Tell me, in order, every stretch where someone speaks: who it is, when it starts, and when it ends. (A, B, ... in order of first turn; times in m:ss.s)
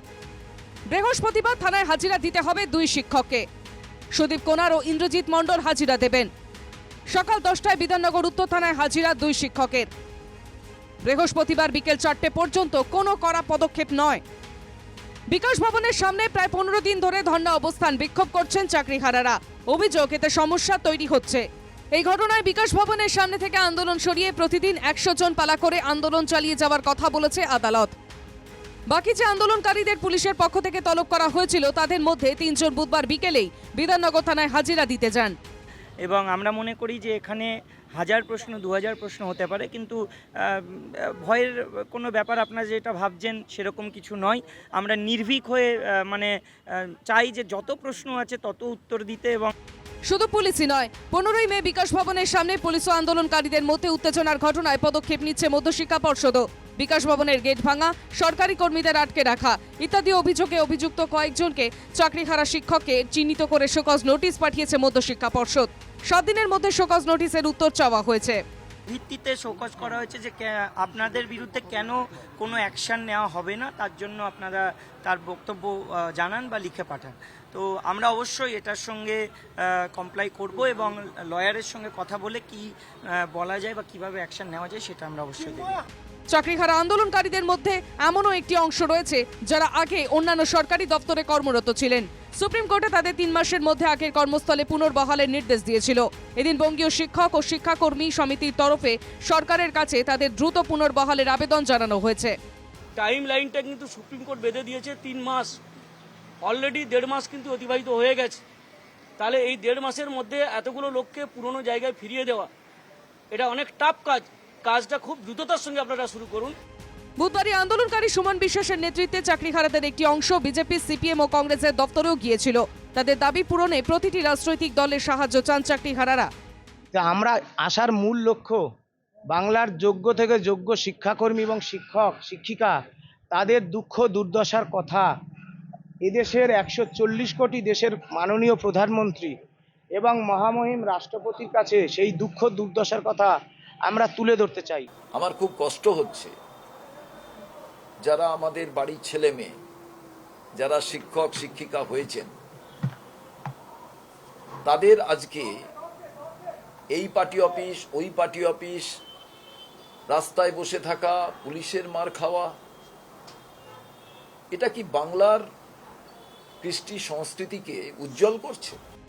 0:00.9-0:03.4 A
0:04.1-0:06.3 A
0:07.1-0:09.9 A
0:11.0-0:14.2 A
0:15.3-0:27.9 A
0:28.9-0:35.3 A
0:36.0-0:49.5 B
0:50.1-1:08.4 A
1:08.9-1:25.8 B
1:26.3-1:42.4 A
1:43.0-1:45.6 C
1:46.4-1:48.4 C
1:49.2-1:52.5 C
1:53.3-1:56.6 C
1:57.2-2:06.3 A
2:06.9-2:08.6 D
2:09.3-2:12.8 D
2:13.3-2:15.1 D
2:16.0-2:19.3 D
2:20.0-2:23.3 D
2:23.9-2:24.9 D
2:25.2-2:26.3 E
2:28.0-2:29.6 E
2:30.6-2:32.3 E
2:34.6-2:35.5 E
2:36.9-2:39.0 E
2:40.1-2:42.6 E
2:44.5-2:45.5 E
2:46.6-2:48.8 E